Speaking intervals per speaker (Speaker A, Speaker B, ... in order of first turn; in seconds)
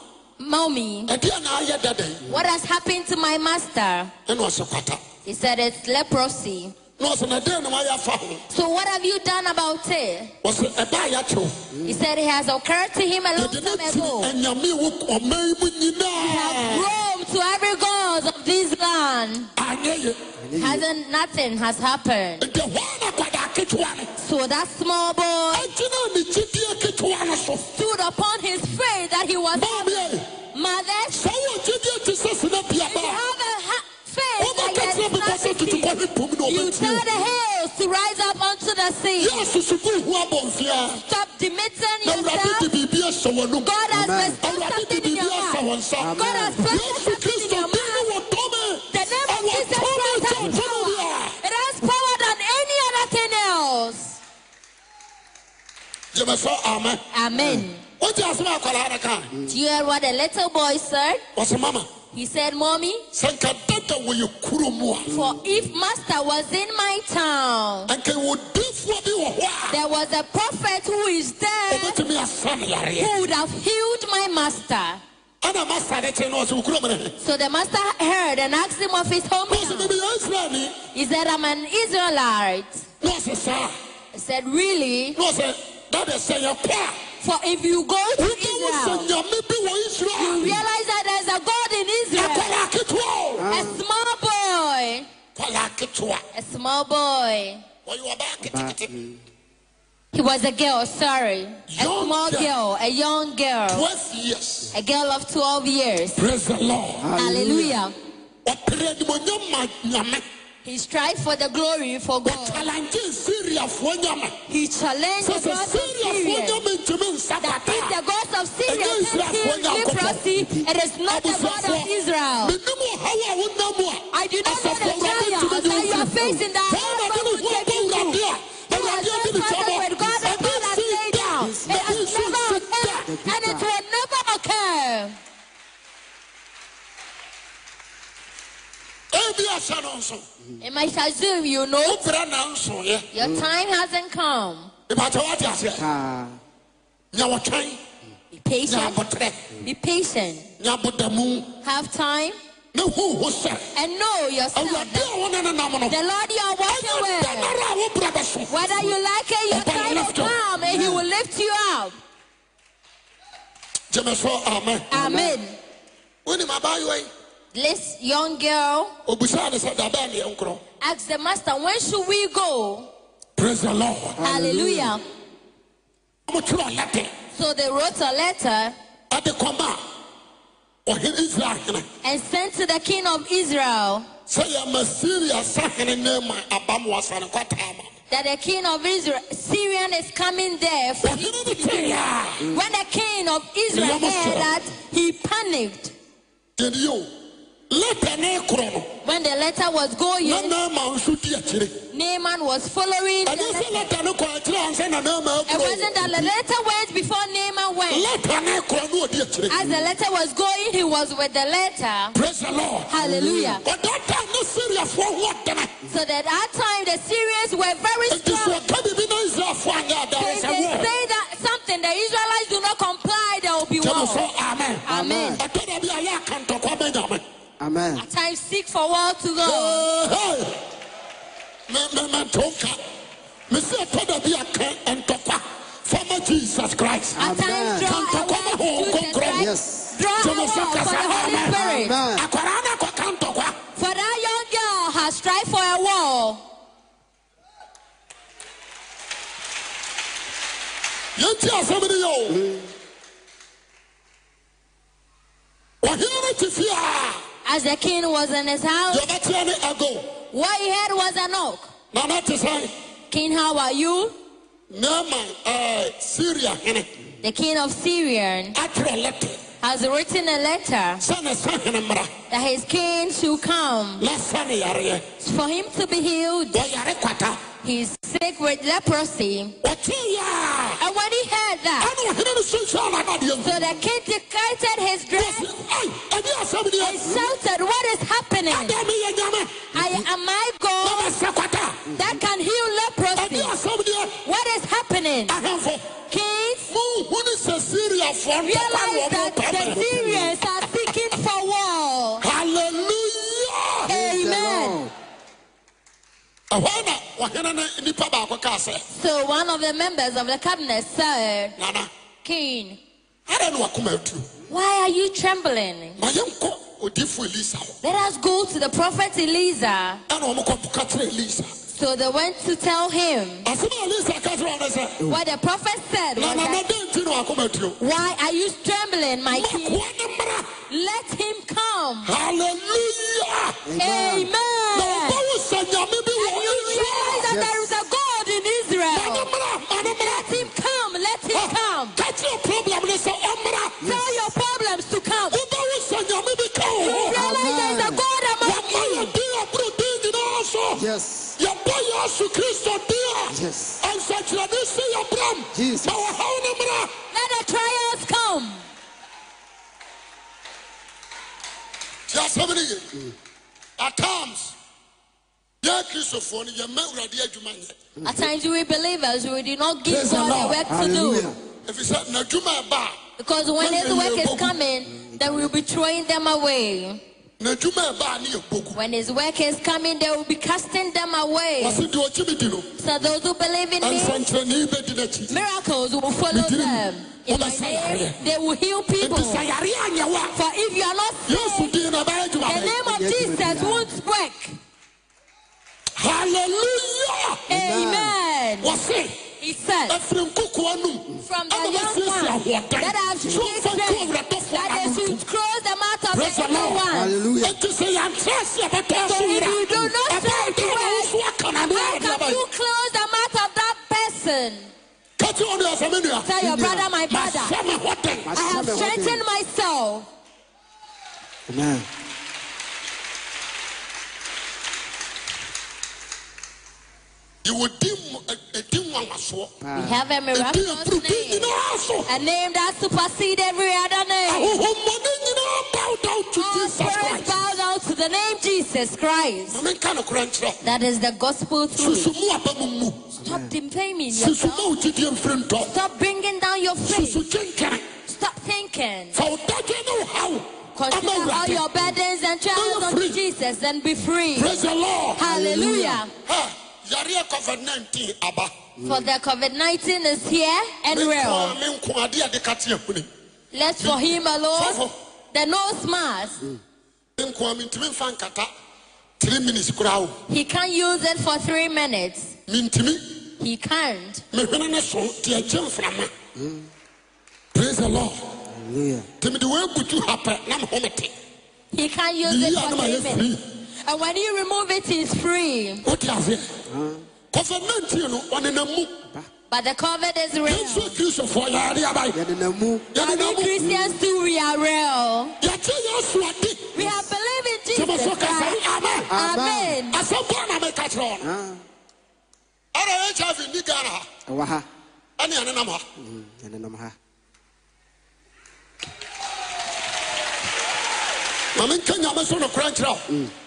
Speaker A: 0.4-1.1, 2.2-4.1, 5.2-6.8, 8.5-10.3, 11.8-14.3, 16.2-19.5, 20.5-22.4, 24.2-25.7, 27.7-31.2, 32.9-35.9, 36.5-39.5, 41.0-42.7, 43.6-45.6, 46.1-48.1, 48.9-54.2, 57.1-57.8, 59.5-61.2, 62.1-63.0, 65.1-67.9, 69.7-72.0, 73.0-75.0, 77.2-80.0, 80.9-82.8, 84.1-85.2, 87.2-89.1, 90.2-92.5, 93.5-95.1, 96.3-97.6, 100.1-103.8, 104.7-106.2, 107.2-107.9, 110.7-112.7, 114.5-116.7, 117.4-122.5, 124.1-135.2, 140.6-142.1, 143.1-144.7, 148.3-149.0, 149.6-150.5, 151.6-152.4, 153.8-155.1, 155.9-157.6, 158.5-161.9, 164.9-165.6, 167.5-168.9, 170.8-172.9, 174.2-175.0, 177.3-178.8, 182.0-184.1, 188.1-195.9, 199.0-200.6, 201.9-203.9, 205.5-208.1, 209.5-212.2, 212.9-213.6, 215.9-218.6, 220.2-224.3, 224.9-225.4, 228.0-229.9, 237.2-242.0, 243.8-246.4, 257.4-259.1, 260.3-261.7, 263.1-264.1, 267.2-268.6, 269.6-271.0, 272.3-274.1, 275.2-276.6, 277.6-279.6, 280.8-281.9, 283.4-285.5, 286.8-288.8, 289.7-291.1, 291.9-293.5, 294.2-295.4, 296.1-296.7, 298.4-302.2, 303.9-304.8, 308.9-311.6, 312.2-312.8, 314.5-316.0, 317.8-320.0, 321.7-323.5, 325.1-326.6, 327.8-329.8, 330.7-332.1, 333.8-335.2, 336.1-339.3, 339.9-342.0, 343.8-345.4, 346.8-349.1, 357.1-358.6, 368.0-371.3, 373.2-377.0, 378.7-381.9, 382.8-384.3, 385.3-389.4, 390.3-391.7, 392.4-394.6, 397.5-398.8, 399.4-400.0, 401.2-407.2, 409.0-411.1, 411.7-414.7, 416.2-417.5, 418.3-420.1, 429.7-431.5, 432.1-434.6, 436.4-439.6, 440.6-442.1, 443.2-444.7, 445.6-447.2, 448.1-449.2, 450.8-454.6, 455.2-456.1, 458.8-461.5, 463.5-464.8, 465.3-466.4, 470.3-472.3, 473.4-474.2, 481.7-483.3, 483.9-485.9, 489.5-491.0, 492.9-495.4, 496.7-500.0
Speaker B: 1.1-2.3, 4.3-5.0, 7.0-8.4, 10.4-11.6, 13.4-16.9, 19.6-20.2, 22.4-24.1, 25.5-27.7, 29.5-30.3, 31.1-33.2, 34.4-37.0, 39.2-41.0, 42.0-43.7, 44.4-51.4, 56.1-57.0, 58.0-59.3, 61.4-61.9, 63.1-65.1, 67.9-69.8, 71.7-73.2, 75.4-77.2, 79.5-80.8, 83.0-83.7, 85.2-87.0, 88.2-90.6, 92.2-93.5, 95.3-96.2, 97.8-98.9, 101.7-102.5, 103.7-104.7, 106.2-107.1, 108.5-110.2, 112.2-114.4, 115.2-118.0, 118.7-120.2, 121.1-121.9, 122.4-126.1, 126.7-133.1, 139.1-140.2, 141.8-143.1, 144.9-145.8, 147.1-147.8, 148.7-149.4, 150.6-151.6, 152.7-153.7, 154.6-156.0, 156.7-158.9, 159.5-160.4, 163.9-164.9, 166.2-167.1, 169.1-170.6, 173.4-174.2, 176.3-177.1, 179.1-179.8, 180.9-181.9, 184.3-187.9, 191.0-192.4, 193.7-194.5, 196.6-197.1, 197.7-198.9, 200.2-201.8, 203.3-206.3, 207.9-209.6, 212.2-212.9, 213.6-215.7, 218.1-220.9, 223.8-224.9, 225.4-227.2, 229.4-230.6, 231.7-232.8, 233.5-237.2, 237.8-239.5, 240.2-243.6, 251.2-252.4, 255.8-257.2, 258.9-260.2, 261.9-262.7, 264.7-266.9, 268.6-269.4, 271.0-272.1, 274.0-275.0, 276.5-277.4, 279.6-280.8, 281.8-283.6, 285.2-287.3, 288.5-289.7, 290.8-291.9, 293.2-294.2, 295.3-295.9, 296.7-299.9, 302.2-303.9, 306.5-308.8, 311.6-311.9, 313.3-314.3, 316.0-317.8, 320.1-321.5, 323.4-325.0, 326.2-327.8, 329.3-330.5, 332.1-333.6, 334.8-337.3, 338.9-340.4, 341.3-343.9, 345.3-347.2, 348.4-350.9, 351.4-356.9, 362.1-362.9, 363.8-364.6, 365.6-367.8, 369.9-370.6, 371.6-373.0, 373.6-374.6, 377.4-378.8, 381.6-382.7, 383.8-385.4, 386.3-388.2, 389.0-390.4, 391.3-392.8, 396.0-397.4, 398.6-399.2, 399.9-405.2, 406.1-406.9, 407.4-412.4, 415.2-416.3, 417.1-418.3, 427.4-429.6, 430.3-432.1, 434.3-437.4, 439.5-440.6, 441.8-443.1, 444.1-445.7, 446.9-447.9, 449.1-451.6, 452.5-453.2, 454.4-455.4, 456.1-458.5, 460.9-463.1, 463.8-464.9, 467.2-468.5, 469.2-470.2, 472.5-473.2, 474.3-476.1, 477.5-478.3, 479.2-481.1, 482.2-483.4, 485.8-486.5, 487.3-489.0, 490.4-492.2, 492.9-493.6, 495.4-496.9, 497.7-499.1, 499.9-501.3, 502.7-504.1, 505.2-505.8, 511.6-513.1
Speaker C: 20.4-20.8, 43.9-44.4, 46.0-46.6, 57.3-57.6, 65.1-65.6, 93.4-93.8, 98.4-99.2, 107.0-107.8, 120.4-120.7, 125.8-126.4, 131.4-131.9, 133.1-133.7, 143.2-143.5, 145.8-146.4, 160.6-161.1, 164.9-165.4, 174.2-175.0, 213.0-213.6, 224.9-225.4, 227.6-228.0, 237.2-237.9, 239.3-239.9, 241.5-242.3, 252.3-252.7, 289.7-290.1, 291.9-292.2, 299.6-300.4, 303.9-304.9, 333.6-334.3, 337.3-337.7, 343.8-344.2, 347.1-348.0, 350.7-351.4, 353.3-353.8, 355.5-356.0, 368.0-368.3, 370.6-371.4, 374.9-375.5, 392.8-393.9, 397.5-398.2, 406.9-407.6, 416.4-416.9, 418.2-419.2, 421.5-421.9, 429.6-430.0, 443.2-443.5, 455.2-456.0, 458.8-459.1, 476.4-476.7, 478.5-479.1, 486.7-487.0, 492.1-492.9, 493.6-493.9, 499.1-499.8, 501.2-501.6, 504.3-504.7, 506.0-507.0